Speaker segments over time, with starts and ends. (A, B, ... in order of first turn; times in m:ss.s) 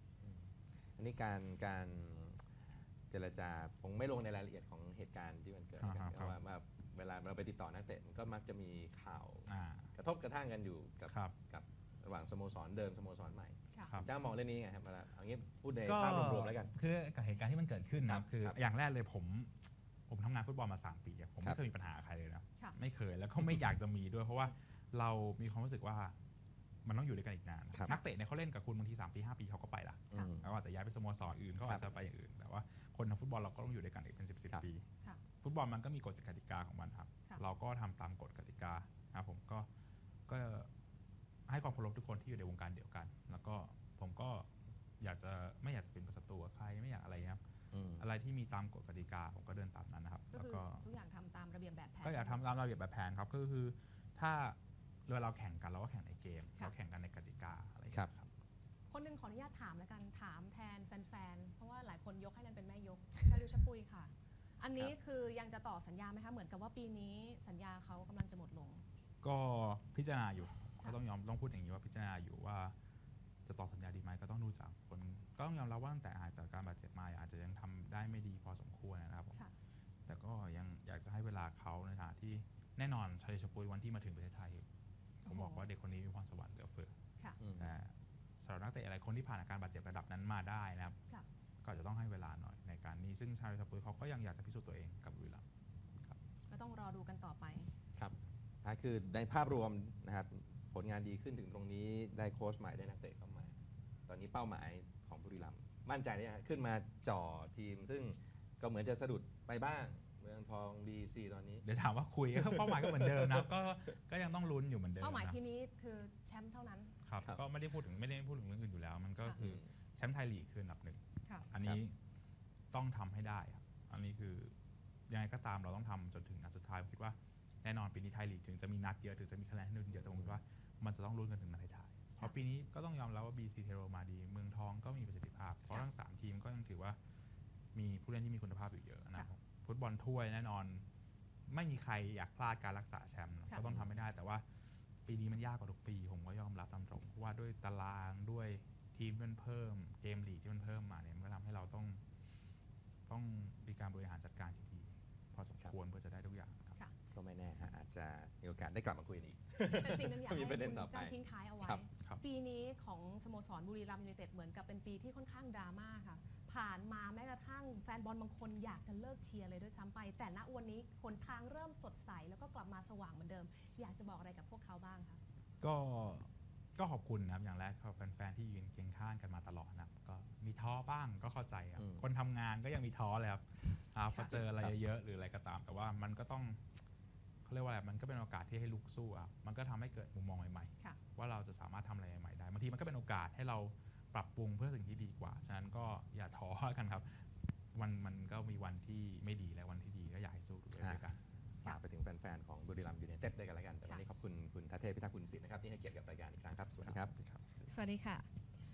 0:00.2-0:02.5 A
0:03.1-0:16.7 A
0:05.8-0:06.4 B
0:09.5-0:09.9 B
0:13.8-0:14.1 B
0:15.8-0:19.5 B
0:18.1-0:18.6 A
0:20.1-0:26.1 B
0:26.8-0:34.8 B
0:27.7-0:28.0 A
0:30.1-0:30.5 A
0:31.6-0:31.9 A
0:35.4-0:39.7 B
0:40.3-0:40.7 B
0:41.5-0:44.5 B
0:45.0-0:47.4 B
0:47.7-0:48.0 A
0:48.0-0:50.8 B
0:50.3-0:52.4 C
0:52.0-0:54.6 B
0:55.1-0:58.3 B
0:58.9-1:08.8 C
1:09.2-1:12.7 B
1:13.4-1:19.5 B
1:20.0-1:24.6 B
1:25.2-1:26.9 B
1:27.4-1:27.7 A
1:27.6-1:31.0 B
1:31.6-1:35.4 B
1:36.5-1:37.7 C
1:37.9-1:51.6 A
1:51.6-1:55.4 B
1:52.4-1:53.5 A
1:55.0-1:56.9 C
1:57.0-2:01.9 B
1:59.3-1:59.6 A
2:02.7-2:04.5 B
2:05.1-2:17.0 B
2:09.9-2:10.4 A
2:17.7-2:20.8 B
2:21.5-2:24.4 B
2:25.0-2:32.0 B
2:33.1-2:36.8 B
2:37.1-2:41.8 A
2:39.6-2:55.2 C
2:55.6-3:06.6 B
3:01.8-3:02.0 A
3:04.3-3:04.7 A
3:07.4-3:21.2 B
3:21.6-3:27.4 A
3:27.6-3:28.3 C